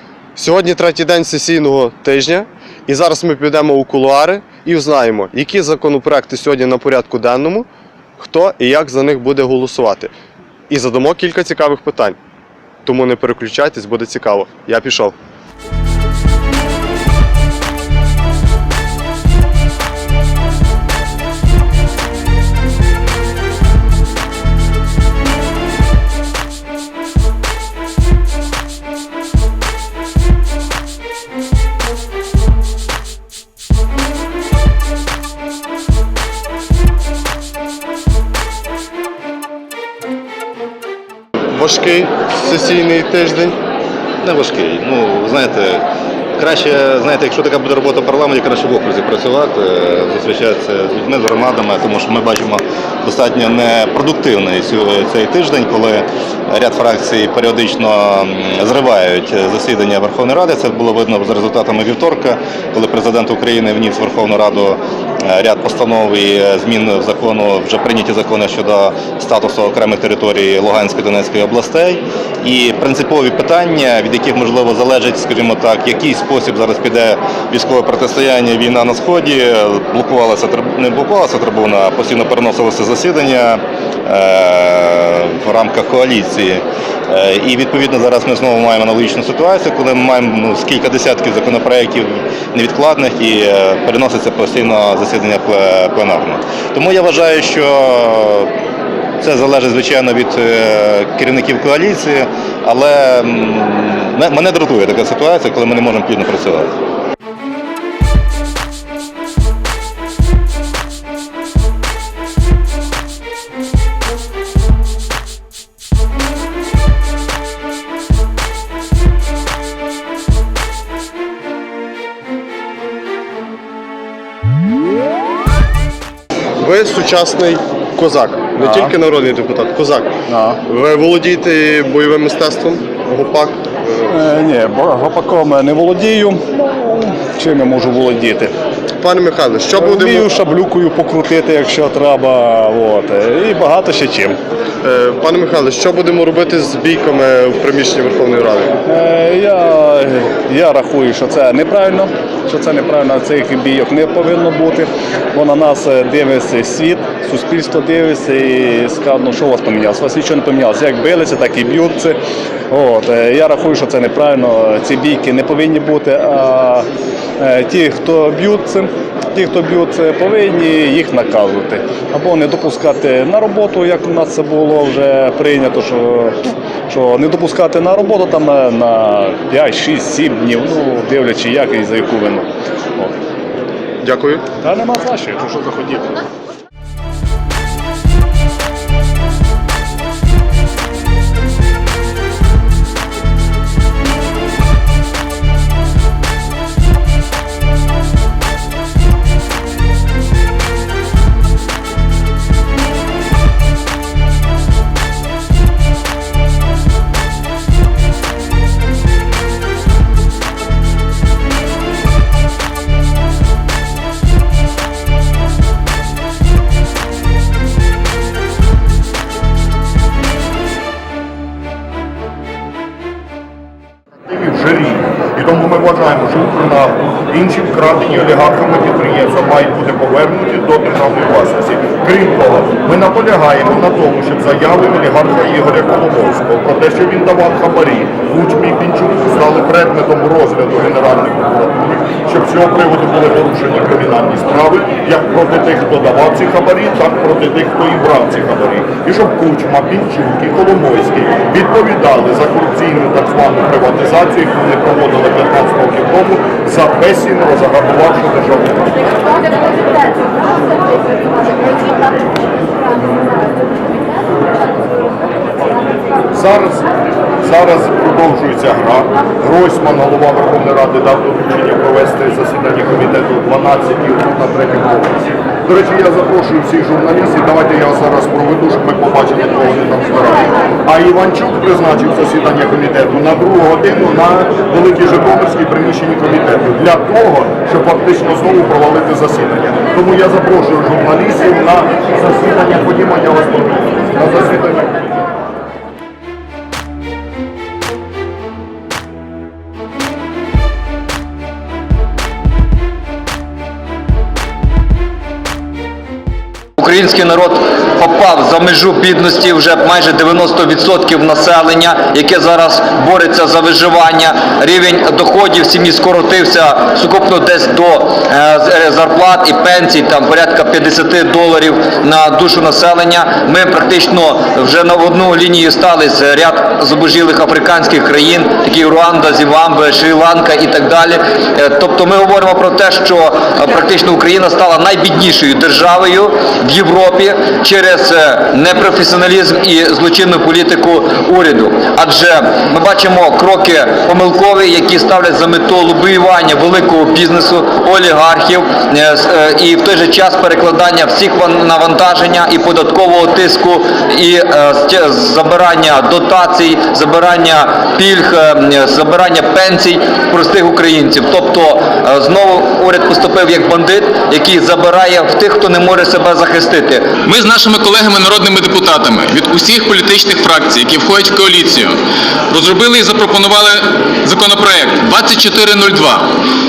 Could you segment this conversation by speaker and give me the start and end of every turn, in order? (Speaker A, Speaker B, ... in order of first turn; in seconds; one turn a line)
Speaker A: 0.4-7.7
Speaker A: 8.2-10.1
Speaker A: 10.7-12.2
Speaker A: 12.8-15.1
Speaker A: 41.5-43.6
Speaker B: 44.2-45.8
Speaker B: 46.4-98.5
Speaker B: 99.2-106.7
Speaker A: 126.6-130.1
Speaker C: 128.6-128.9
Speaker C: 130.3-130.6
Speaker A: 130.7-134.1
Speaker C: 134.1-138.5
Speaker A: 139.0-140.3
Speaker C: 139.8-144.4
Speaker A: 144.8-148.8
Speaker C: 148.9-162.2
Speaker C: 162.7-166.9
Speaker C: 167.4-182.5
Speaker A: 184.0-184.4
Speaker C: 184.6-186.1
Speaker D: 224.3-259.1
Speaker D: 266.3-266.9
Speaker D: 267.4-275.1
Speaker D: 275.7-294.9
Speaker E: 306.8-367.1
Speaker F: 367.2-372.0
Speaker F: 372.5-376.3